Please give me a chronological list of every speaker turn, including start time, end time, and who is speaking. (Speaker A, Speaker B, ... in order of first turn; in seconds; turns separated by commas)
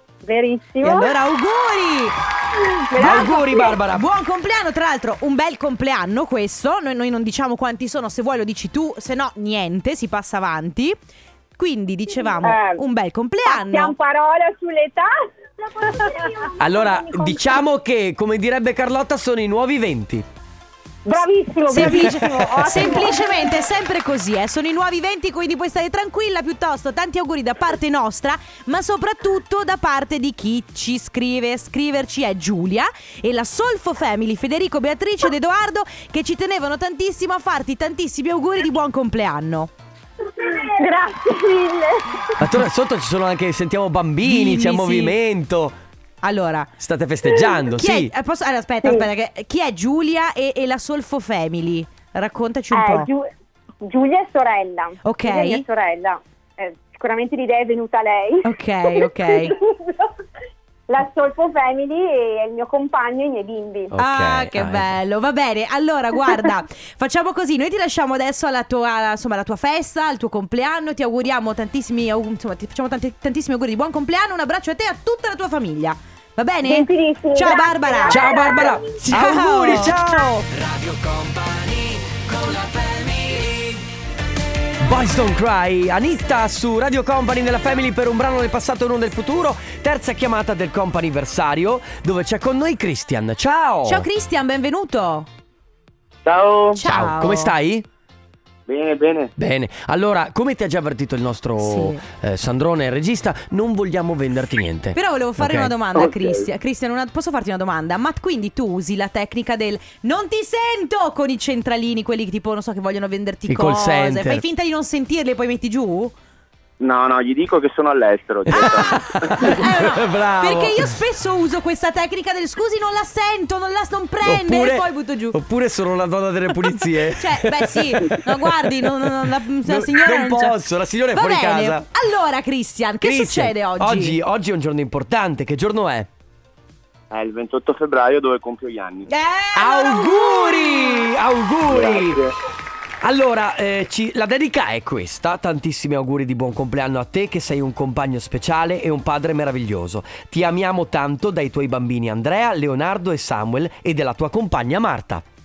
Speaker A: 0.2-1.1, Speaker B: 0.8-2.2, Speaker A: 2.6-3.7, Speaker C: 3.0-4.1, Speaker B: 3.0-11.0, Speaker B: 11.6-13.9, Speaker A: 12.4-12.8, Speaker A: 13.5-17.6, Speaker C: 16.6-20.3, Speaker A: 21.1-23.5, Speaker B: 21.7-39.7, Speaker C: 21.7-22.9, Speaker A: 40.4-42.3, Speaker C: 42.4-45.8, Speaker B: 44.2-45.2, Speaker B: 46.2-46.7, Speaker C: 46.8-48.1, Speaker B: 47.7-53.1, Speaker A: 52.7-53.3, Speaker A: 53.8-60.1, Speaker B: 55.0-55.6, Speaker B: 58.4-59.6, Speaker A: 60.9-63.9, Speaker C: 63.9-65.0, Speaker B: 64.0-80.2, Speaker A: 76.7-78.9, Speaker C: 78.1-83.8, Speaker C: 84.8-94.1, Speaker B: 93.9-95.3, Speaker D: 96.2-96.8, Speaker B: 96.8-97.5, Speaker C: 96.8-97.9, Speaker D: 98.7-99.3, Speaker C: 99.4-105.7, Speaker B: 101.6-102.0, Speaker B: 105.0-116.1, Speaker D: 106.0-106.5, Speaker C: 113.5-114.4, Speaker D: 116.8-119.5, Speaker C: 118.5-121.0, Speaker B: 118.5-125.4, Speaker C: 124.2-131.9, Speaker B: 127.1-130.6, Speaker B: 131.1-134.2, Speaker C: 133.0-136.1, Speaker D: 137.1-139.1, Speaker B: 139.1-141.1, Speaker C: 139.6-142.2, Speaker D: 141.7-142.3, Speaker C: 143.0-155.2